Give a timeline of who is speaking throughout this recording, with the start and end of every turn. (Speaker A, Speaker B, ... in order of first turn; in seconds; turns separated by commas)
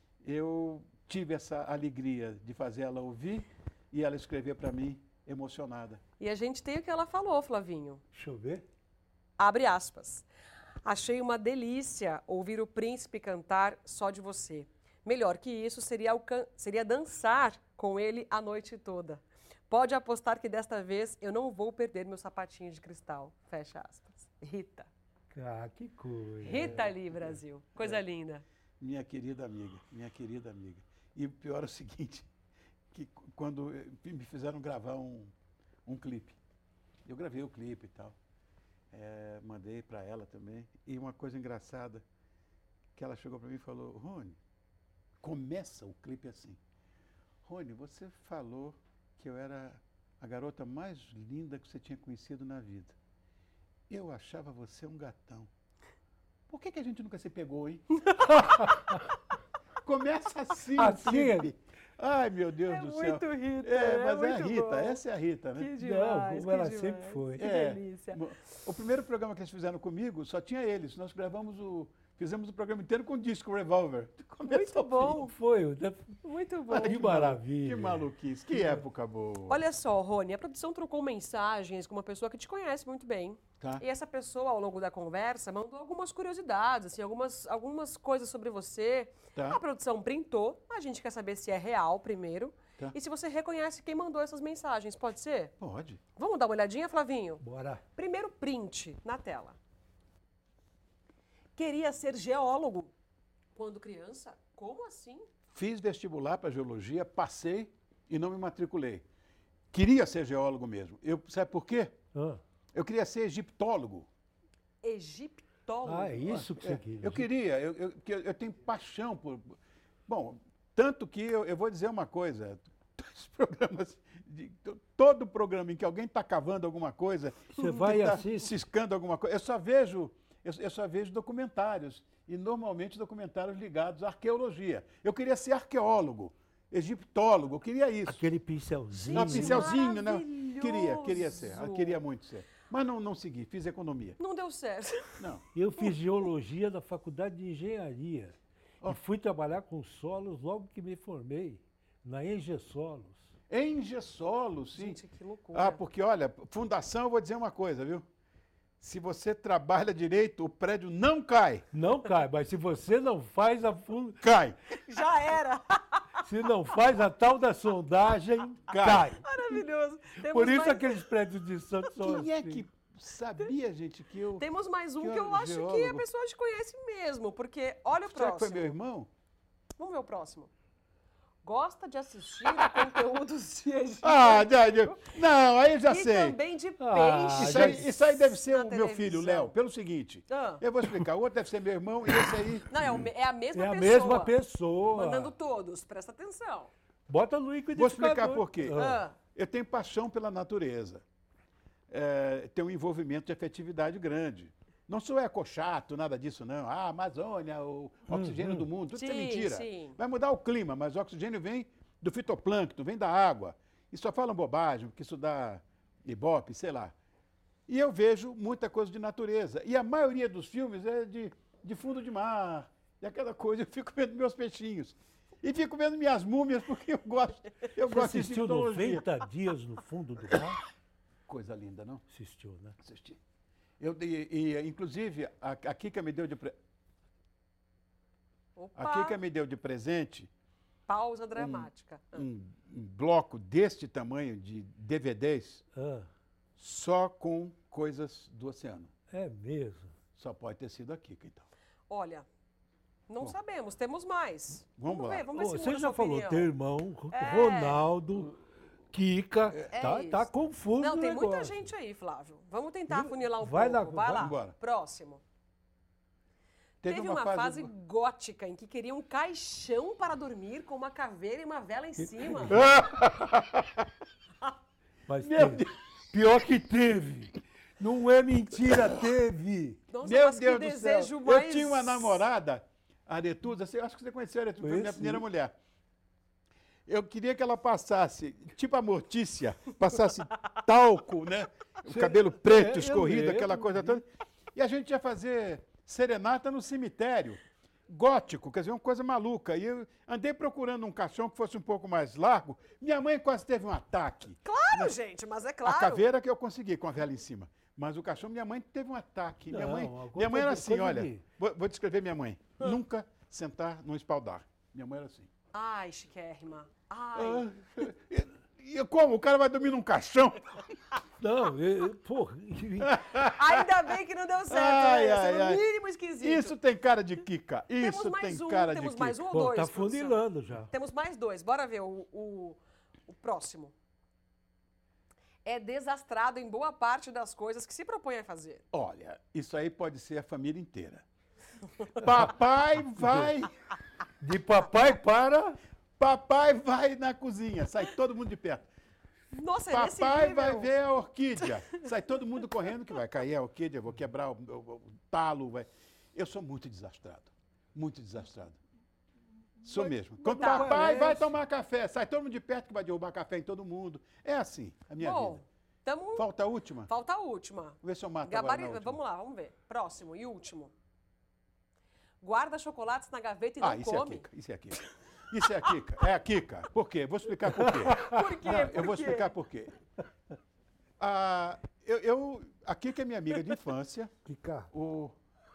Speaker A: 0.2-6.0, Speaker B: 6.2-8.0, Speaker C: 8.1-8.7, Speaker B: 9.4-10.3, Speaker B: 10.8-24.9, Speaker C: 25.3-26.8, Speaker B: 26.4-28.4, Speaker A: 26.5-26.9, Speaker A: 28.8-32.3, Speaker A: 32.9-35.3, Speaker A: 35.9-36.4, Speaker A: 37.0-38.1, Speaker A: 38.9-42.0, Speaker A: 43.0-44.4, Speaker A: 45.2-46.6, Speaker A: 47.4-52.9, Speaker A: 53.9-55.5, Speaker A: 56.5-58.4, Speaker C: 58.6-58.9, Speaker A: 59.8-65.7, Speaker C: 60.7-61.5, Speaker B: 62.7-65.0, Speaker B: 65.6-68.2, Speaker C: 65.8-67.5, Speaker A: 67.4-75.2, Speaker B: 74.5-75.3, Speaker C: 75.0-78.8, Speaker B: 76.2-77.0, Speaker A: 76.7-79.6, Speaker B: 79.5-95.5, Speaker A: 89.3-89.6, Speaker A: 95.6-96.0, Speaker B: 96.2-97.4, Speaker C: 97.4-97.8, Speaker B: 98.0-99.6, Speaker B: 101.5-102.9, Speaker B: 103.5-105.3, Speaker A: 105.5-109.0, Speaker A: 109.7-112.0, Speaker C: 112.1-112.4, Speaker A: 112.7-114.1, Speaker B: 114.8-116.3, Speaker C: 115.8-117.3, Speaker A: 116.2-119.5, Speaker A: 120.1-138.2, Speaker C: 127.5-128.5, Speaker C: 138.1-139.7, Speaker B: 139.0-142.0, Speaker A: 139.1-144.2, Speaker B: 144.2-145.2, Speaker C: 145.5-153.3, Speaker A: 153.5-155.0, Speaker B: 154.7-155.8, Speaker A: 155.5-158.0, Speaker A: 158.8-161.6, Speaker C: 161.7-164.2, Speaker A: 164.2-164.6, Speaker B: 164.9-166.0, Speaker C: 166.2-169.3, Speaker A: 168.7-169.1, Speaker B: 169.2-171.1, Speaker C: 170.2-172.6, Speaker A: 172.0-174.4, Speaker B: 174.4-178.7, Speaker A: 175.0-176.0, Speaker A: 178.0-179.1, Speaker B: 179.8-180.5, Speaker B: 181.4-185.1, Speaker A: 184.0-186.4, Speaker B: 185.9-189.5, Speaker C: 186.8-187.9, Speaker A: 187.4-193.1, Speaker B: 190.3-190.6, Speaker B: 192.7-194.3, Speaker C: 193.5-195.3, Speaker B: 194.9-196.7, Speaker C: 197.1-199.0, Speaker A: 197.7-201.0, Speaker B: 198.7-199.2, Speaker A: 201.9-216.9, Speaker C: 208.1-208.7, Speaker B: 208.9-210.0, Speaker A: 217.7-229.1, Speaker C: 227.8-230.6, Speaker A: 231.3-232.0, Speaker C: 232.1-232.8, Speaker A: 232.8-233.2, Speaker A: 233.8-236.5, Speaker B: 238.6-239.2, Speaker A: 238.8-240.3, Speaker B: 240.9-242.2, Speaker A: 241.4-245.6, Speaker C: 245.7-246.1, Speaker A: 246.6-248.9, Speaker C: 249.1-249.9, Speaker A: 250.1-251.5, Speaker B: 251.9-252.2, Speaker B: 253.1-256.5, Speaker A: 254.8-255.3, Speaker C: 255.3-258.4, Speaker B: 257.1-257.8, Speaker C: 258.9-261.7, Speaker B: 259.7-265.2, Speaker C: 262.9-264.4, Speaker A: 264.1-264.5, Speaker A: 266.8-267.7, Speaker B: 266.8-272.6, Speaker C: 272.0-272.7, Speaker A: 272.5-273.8, Speaker C: 275.1-279.8, Speaker A: 275.2-275.8, Speaker A: 278.5-279.0, Speaker B: 279.9-282.2, Speaker A: 280.0-285.5, Speaker C: 284.6-285.2, Speaker A: 286.9-304.9, Speaker C: 291.9-294.0, Speaker B: 304.4-306.0, Speaker A: 305.6-315.3, Speaker C: 309.5-311.2, Speaker B: 315.5-317.5, Speaker A: 317.1-320.7, Speaker C: 321.2-322.9, Speaker A: 322.8-323.7, Speaker B: 323.3-326.5, Speaker A: 324.5-325.6, Speaker A: 326.2-329.2, Speaker B: 327.8-333.7, Speaker C: 329.3-330.7, Speaker B: 335.4-338.6, Speaker A: 338.7-341.0, Speaker A: 341.9-343.5, Speaker C: 343.0-343.3, Speaker C: 344.2-345.6, Speaker A: 346.0-348.6, Speaker B: 349.3-350.7, Speaker A: 349.7-358.6, Speaker A: 359.6-365.4, Speaker C: 359.8-361.3, Speaker B: 360.3-360.8, Speaker B: 365.0-366.3, Speaker A: 366.1-366.9, Speaker B: 366.9-370.7, Speaker A: 367.8-369.0, Speaker B: 372.2-374.2, Speaker A: 373.6-379.7, Speaker C: 377.5-378.2, Speaker B: 378.0-379.3, Speaker A: 381.0-384.1, Speaker C: 384.2-384.7, Speaker A: 384.7-385.1